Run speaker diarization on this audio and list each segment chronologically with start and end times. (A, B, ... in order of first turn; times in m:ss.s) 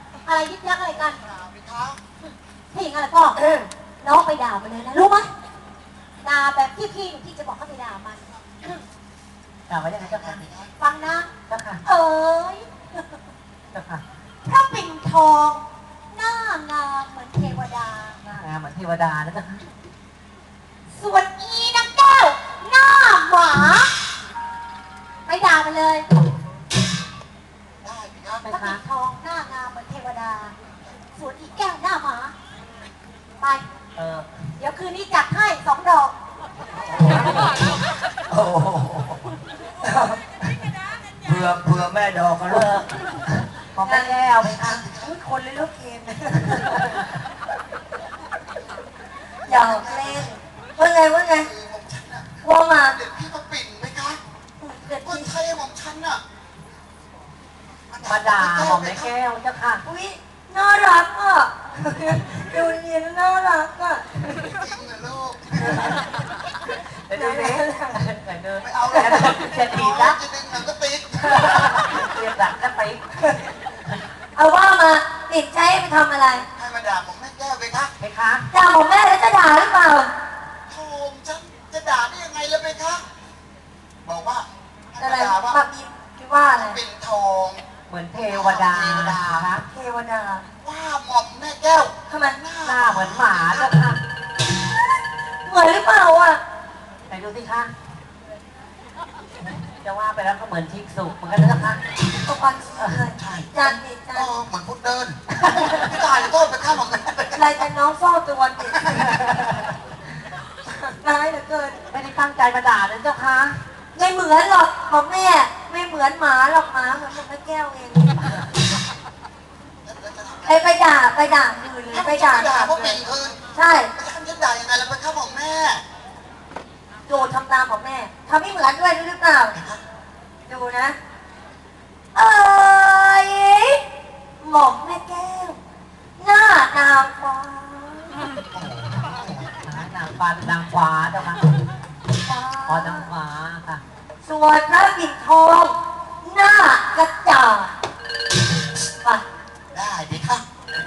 0:00.2-0:01.2 A
0:01.2-0:02.0 B
0:02.2-0:03.4 A
0:03.4-0:03.7 C
0:04.0-0:05.3 A
0:06.2-0:08.8 A
0:09.7-0:10.4 D
0:10.0-0:10.7 B
0:10.8-0:11.3 A
0:11.5-0:11.8 D
0:11.8-0:13.0 A
0:13.7-0:14.0 D
0:14.4-0:18.2 A
0:18.2-0:19.6 D
0:20.9-0:23.9 A
0:25.2-0:26.0 A
0:27.8-0:28.4 B
0:28.4-0:28.8 D
0:28.4-0:30.5 A
0:31.1-0:32.3 A
0:33.4-0:33.6 A
0:34.0-0:34.2 D
0:34.6-0:36.1 A
0:36.9-0:39.2 E
0:41.2-0:42.9 E
0:42.5-0:42.9 D
0:43.6-0:44.8 D
0:43.8-0:44.2 C
0:44.4-0:45.1 B
0:44.8-0:47.0 C
0:49.4-0:51.5 C
0:49.5-0:50.2 B
0:51.4-0:52.3 B
0:52.4-0:53.0 C
0:52.9-0:54.2 B
0:54.6-0:55.3 C
0:55.0-0:56.2 B
0:57.9-0:59.1 B
0:58.0-0:59.8 D
0:59.8-1:04.6 C
1:04.4-1:06.0 B
1:07.1-1:10.2 D
1:07.1-1:08.0 C
1:08.6-1:12.0 B
1:08.9-1:09.3 C
1:11.2-1:14.0 D
1:14.3-1:16.5 C
1:16.5-1:17.9 B
1:18.0-1:18.5 D
1:18.5-1:20.1 C
1:20.7-1:23.0 B
1:24.0-1:25.6 B
1:25.0-1:26.8 C
1:26.5-1:27.6 B
1:27.9-1:29.6 D
1:28.3-1:29.5 B
1:29.6-1:30.4 C
1:30.6-1:33.7 B
1:32.1-1:32.4 C
1:32.6-1:34.0 D
1:35.4-1:36.4 C
1:37.1-1:37.7 D
1:39.8-1:41.8 D
1:42.2-1:44.3 C
1:43.2-1:47.5 B
1:45.5-1:45.8 D
1:47.3-1:48.9 C
1:49.0-1:49.7 D
1:50.6-1:51.8 C
1:51.9-1:53.6 D
1:53.9-1:58.5 C
1:59.8-2:00.6 B
2:00.4-2:03.9 C
2:01.9-2:03.4 B
2:03.9-2:05.8 B
2:07.0-2:09.6 C
2:09.5-2:09.8 B
2:10.5-2:11.0 C
2:12.1-2:13.8 C
2:14.4-2:15.6 C
2:16.2-2:18.3 C
2:18.5-2:19.5 B
2:19.6-2:21.5 D
2:22.2-2:23.1 C
2:22.6-2:23.8 D
2:24.2-2:27.7 C
2:29.7-2:30.4 B